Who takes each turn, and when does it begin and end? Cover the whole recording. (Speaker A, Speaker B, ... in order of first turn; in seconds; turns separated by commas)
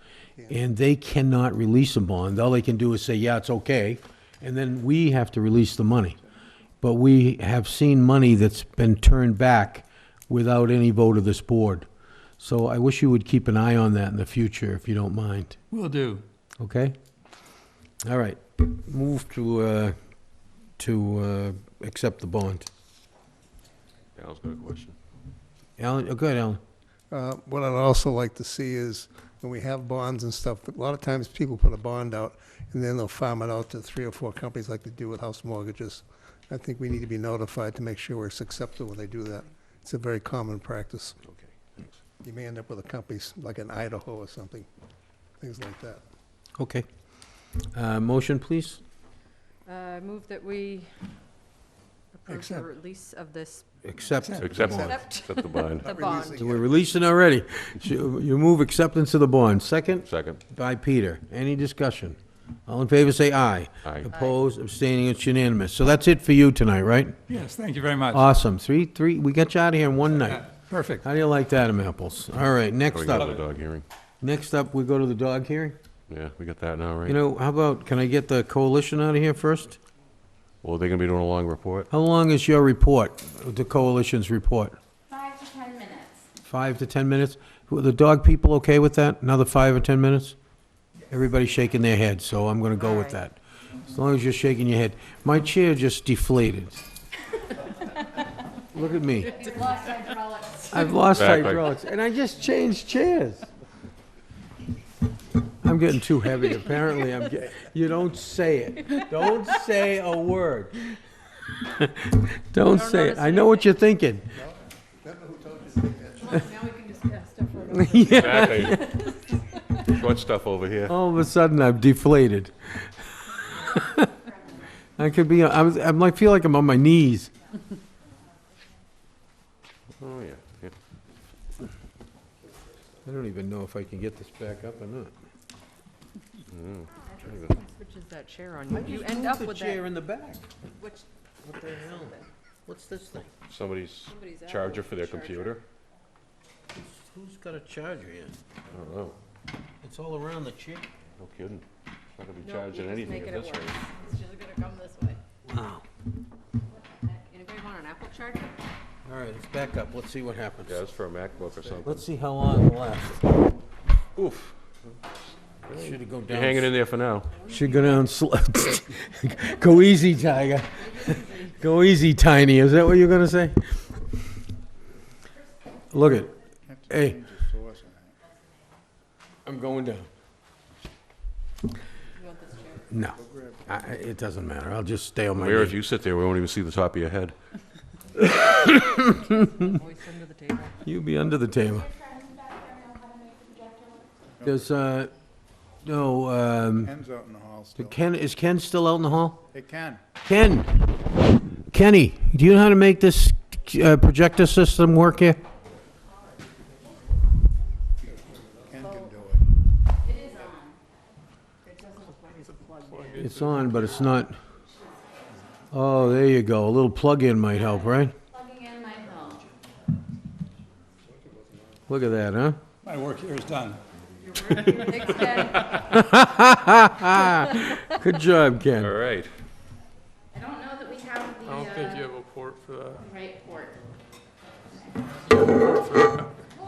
Speaker A: 0.5-6.2, Speaker A: 6.8-11.9, Speaker A: 12.4-15.6, Speaker B: 15.7-16.2, Speaker A: 16.6-16.9, Speaker A: 18.0-19.9, Speaker A: 20.8-22.7, Speaker C: 24.1-24.9, Speaker A: 25.8-26.6, Speaker D: 27.1-41.2, Speaker D: 42.2-44.7, Speaker D: 45.4-46.0, Speaker A: 46.6-46.9, Speaker A: 47.7-48.8, Speaker E: 49.6-50.9, Speaker E: 52.1-53.6, Speaker D: 52.3-52.7, Speaker A: 53.8-55.0, Speaker C: 54.4-56.0, Speaker E: 54.9-56.4, Speaker D: 55.8-56.7, Speaker A: 56.3-67.2, Speaker C: 60.0-60.4, Speaker C: 63.8-64.1, Speaker B: 67.3-68.0, Speaker A: 68.1-70.5, Speaker A: 71.0-73.4, Speaker C: 72.9-73.8, Speaker A: 74.2-75.8, Speaker C: 76.1-77.2, Speaker A: 77.0-79.8, Speaker C: 80.6-81.9, Speaker A: 81.9-84.8, Speaker F: 85.1-85.6, Speaker A: 86.5-90.3, Speaker A: 91.1-96.8, Speaker A: 98.7-99.5, Speaker E: 99.2-101.0, Speaker A: 100.7-103.5, Speaker C: 101.1-101.7, Speaker A: 105.6-111.0, Speaker A: 111.6-114.3, Speaker E: 112.6-113.7, Speaker D: 115.0-116.4, Speaker E: 116.2-119.1, Speaker A: 117.7-118.9, Speaker C: 118.1-118.9, Speaker C: 119.8-120.9, Speaker A: 120.9-122.9, Speaker A: 123.5-124.1, Speaker A: 125.0-127.3, Speaker C: 130.0-130.7, Speaker A: 133.0-135.1, Speaker C: 136.5-137.5, Speaker E: 137.1-139.8, Speaker A: 138.7-140.4, Speaker E: 140.8-141.1, Speaker A: 141.4-143.3, Speaker C: 143.5-145.6, Speaker E: 144.1-145.6, Speaker A: 146.7-148.4, Speaker C: 148.7-149.2, Speaker A: 149.8-150.8, Speaker C: 151.2-151.6, Speaker C: 152.2-153.9, Speaker E: 152.4-155.2, Speaker A: 155.5-155.8, Speaker E: 157.1-158.5, Speaker A: 159.1-160.8, Speaker C: 160.7-162.1, Speaker A: 161.8-163.4, Speaker C: 164.2-164.7, Speaker C: 165.7-167.3, Speaker A: 165.8-166.7, Speaker A: 167.4-174.0, Speaker E: 170.8-171.5, Speaker A: 175.9-176.4, Speaker G: 176.6-178.2, Speaker A: 176.9-177.2, Speaker A: 179.4-180.1, Speaker E: 182.2-182.8, Speaker A: 182.9-185.8, Speaker G: 183.2-183.6, Speaker C: 185.3-187.3, Speaker A: 188.2-189.5, Speaker E: 189.1-190.7, Speaker A: 190.8-191.9, Speaker A: 194.4-195.1, Speaker A: 195.8-196.9, Speaker G: 196.8-197.9, Speaker A: 197.8-199.4, Speaker G: 199.5-200.0, Speaker A: 200.2-205.4, Speaker G: 208.6-209.4, Speaker F: 210.2-210.5, Speaker E: 211.7-213.2, Speaker H: 212.9-213.6, Speaker A: 213.1-214.3, Speaker A: 215.7-218.1, Speaker F: 218.3-219.2, Speaker E: 218.7-218.9, Speaker A: 221.9-222.6, Speaker F: 222.8-223.8, Speaker B: 223.0-223.8, Speaker E: 224.6-225.7, Speaker A: 225.6-228.9, Speaker C: 228.8-229.3, Speaker H: 231.5-233.0, Speaker E: 231.8-232.1, Speaker H: 235.4-236.3